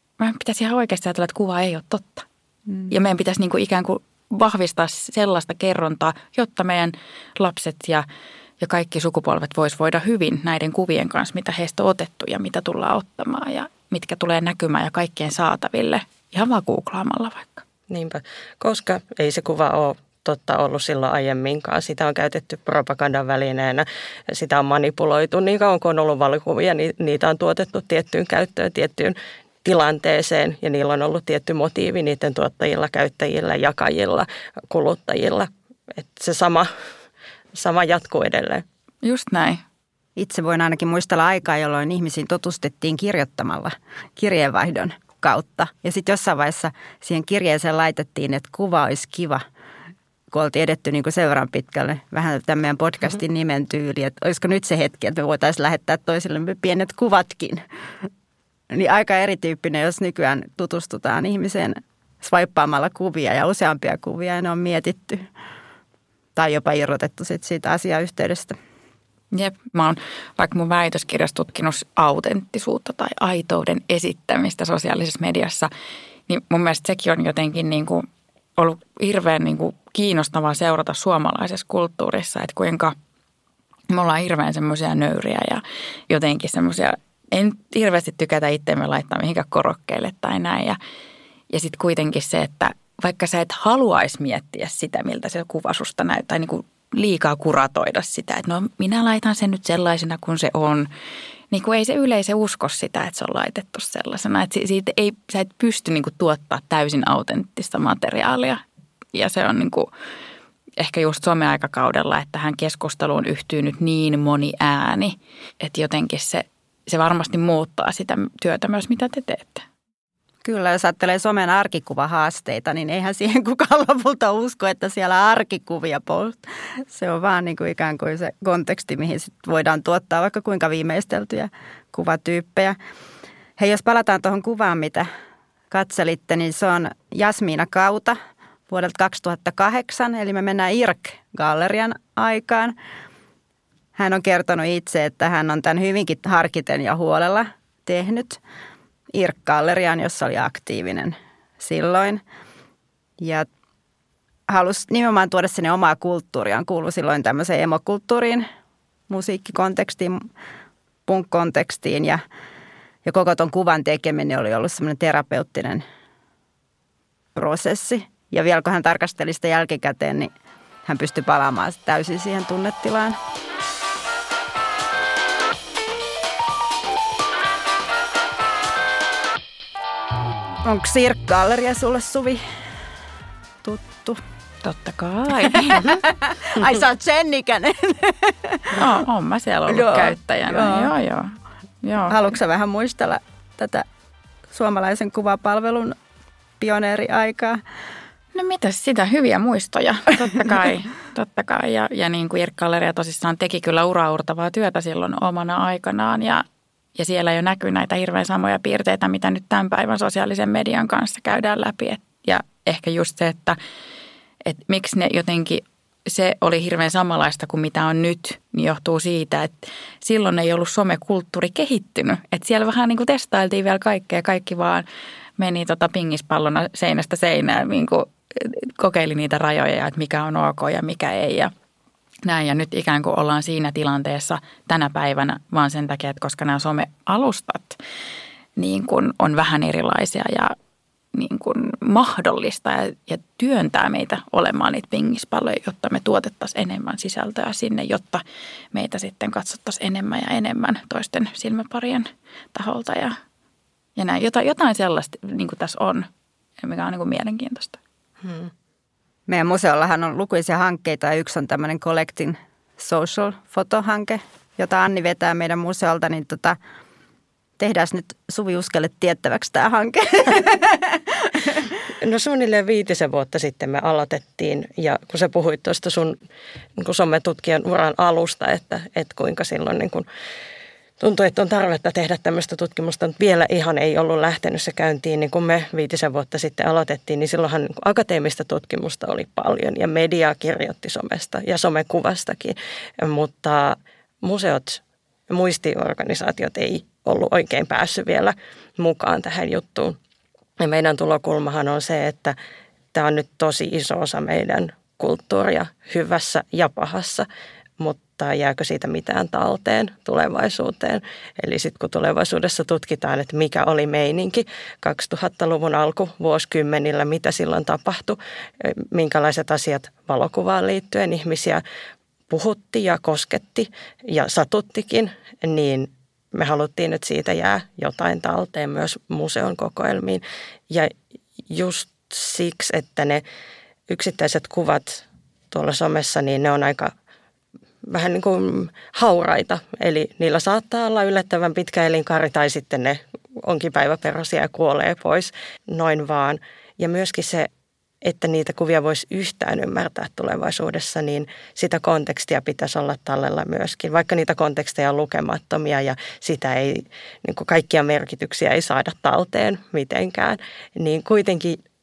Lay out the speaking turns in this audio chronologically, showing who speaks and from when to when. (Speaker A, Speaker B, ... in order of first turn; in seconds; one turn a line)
Speaker A: 0.2-2.3
Speaker A: 2.9-8.1
Speaker A: 8.6-17.6
Speaker B: 17.9-36.7
Speaker B: 37.5-38.6
Speaker A: 39.0-39.6
Speaker C: 40.2-49.4
Speaker C: 50.3-58.1
Speaker C: 58.7-65.3
Speaker C: 66.4-68.6
Speaker A: 69.3-75.7
Speaker A: 76.3-83.0
Speaker A: 83.9-90.8
Speaker A: 91.5-100.9
Speaker A: 101.5-108.6
Speaker A: 109.1-109.9
Speaker A: 110.8-119.7
Speaker C: 120.4-132.8
Speaker C: 133.6-135.1
Speaker C: 135.7-138.2
Speaker C: 138.7-142.8
Speaker C: 144.0-148.4
Speaker C: 149.1-152.2
Speaker C: 153.2-153.5
Speaker C: 154.5-158.5
Speaker C: 159.1-160.3
Speaker C: 161.1-162.2
Speaker C: 163.1-165.8
Speaker C: 167.3-170.3
Speaker C: 170.9-173.2
Speaker C: 180.7-182.4
Speaker C: 183.6-184.2
Speaker A: 184.6-186.0
Speaker C: 185.5-188.9
Speaker A: 188.7-192.2
Speaker C: 189.7-190.9
Speaker C: 192.1-193.9
Speaker C: 194.5-196.0
Speaker C: 196.6-197.6
Speaker A: 198.3-206.4
Speaker A: 207.0-213.6
Speaker A: 214.4-224.8
Speaker A: 225.4-231.5
Speaker A: 232.2-237.8
Speaker A: 238.6-240.6
Speaker A: 241.1-253.2
Speaker A: 254.0-256.1
Speaker A: 256.6-257.8
Speaker B: 258.2-258.5
Speaker C: 259.3-266.6
Speaker C: 267.6-271.8
Speaker B: 272.0-276.2
Speaker B: 276.8-280.1
Speaker B: 281.0-300.0
Speaker B: 300.6-302.4
Speaker B: 302.9-307.3
Speaker B: 307.8-321.6
Speaker B: 322.3-330.9
Speaker B: 331.5-333.2
Speaker B: 333.9-336.9
Speaker B: 337.8-347.5
Speaker B: 348.0-361.6